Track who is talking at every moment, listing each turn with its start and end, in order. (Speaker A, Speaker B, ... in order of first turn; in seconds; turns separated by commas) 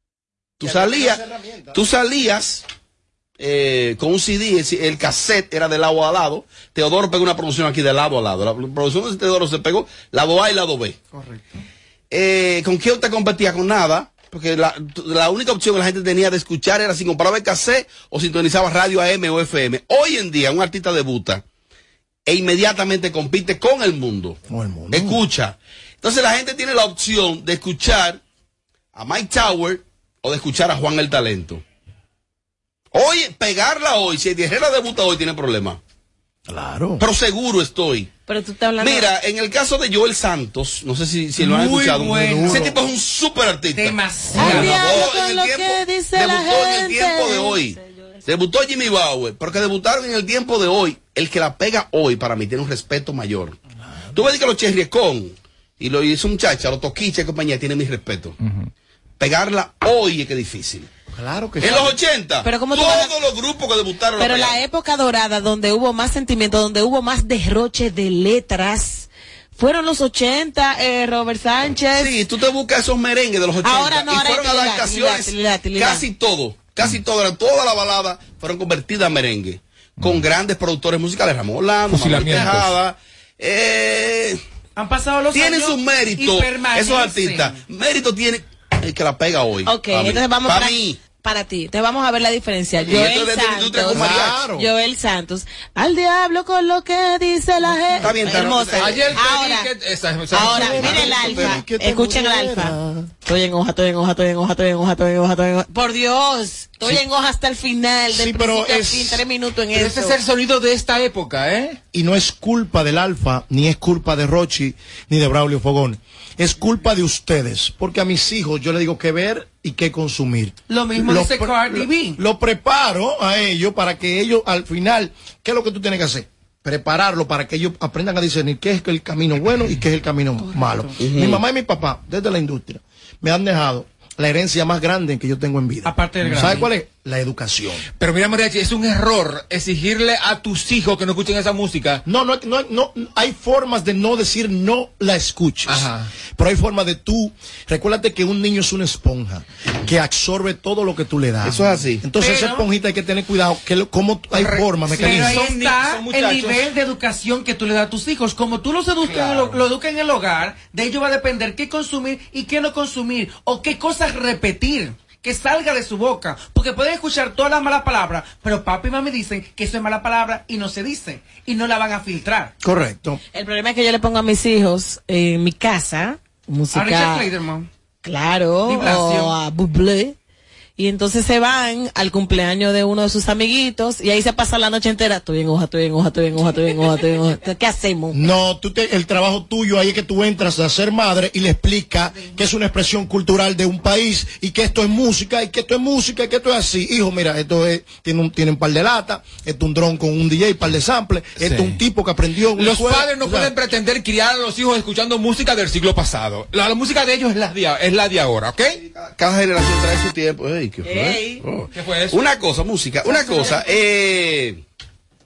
Speaker A: 0.6-1.2, Speaker B: 0.6-1.8, Speaker A: 1.7-2.6, Speaker A: 3.4-11.0, Speaker C: 11.2-11.4, Speaker A: 12.1-21.4, Speaker A: 22.2-24.4, Speaker B: 24.5-25.2, Speaker A: 24.9-28.2, Speaker A: 28.9-31.6, Speaker A: 32.9-35.8, Speaker B: 36.5-37.0, Speaker A: 37.0-38.1, Speaker D: 38.3-39.1, Speaker A: 38.8-53.6, Speaker C: 41.4-42.8, Speaker B: 42.2-42.7, Speaker C: 43.7-44.9, Speaker D: 44.4-48.1, Speaker A: 54.1-58.4, Speaker E: 58.4-58.7, Speaker A: 59.2-60.9, Speaker B: 61.1-62.0, Speaker A: 61.6-64.6, Speaker D: 62.4-63.1, Speaker D: 64.2-72.1, Speaker A: 71.9-84.4, Speaker D: 73.6-76.0, Speaker E: 81.9-82.7, Speaker C: 84.8-87.6, Speaker A: 85.3-91.0, Speaker D: 89.7-99.7, Speaker A: 92.8-94.5, Speaker B: 93.9-94.7, Speaker A: 98.0-99.2, Speaker E: 98.8-101.6, Speaker D: 100.3-110.2, Speaker B: 100.3-103.1, Speaker B: 108.1-109.2, Speaker E: 109.7-111.8, Speaker B: 111.9-137.8, Speaker C: 120.7-122.2, Speaker C: 130.4-130.9, Speaker A: 131.0-131.4, Speaker C: 135.8-136.7, Speaker E: 136.3-136.6, Speaker E: 138.0-142.0, Speaker B: 142.0-155.4, Speaker E: 145.7-146.1, Speaker A: 151.4-152.0, Speaker C: 152.2-152.7, Speaker E: 154.3-156.7, Speaker C: 154.9-172.5, Speaker E: 159.0-159.6, Speaker B: 172.6-173.2, Speaker D: 173.3-177.3, Speaker C: 176.7-177.7, Speaker D: 178.0-180.2, Speaker C: 178.7-179.3, Speaker D: 180.8-188.2, Speaker B: 188.1-203.5, Speaker E: 201.4-201.8, Speaker E: 202.5-208.8, Speaker A: 208.9-214.6, Speaker D: 210.8-211.4, Speaker E: 211.7-212.2, Speaker C: 213.0-213.6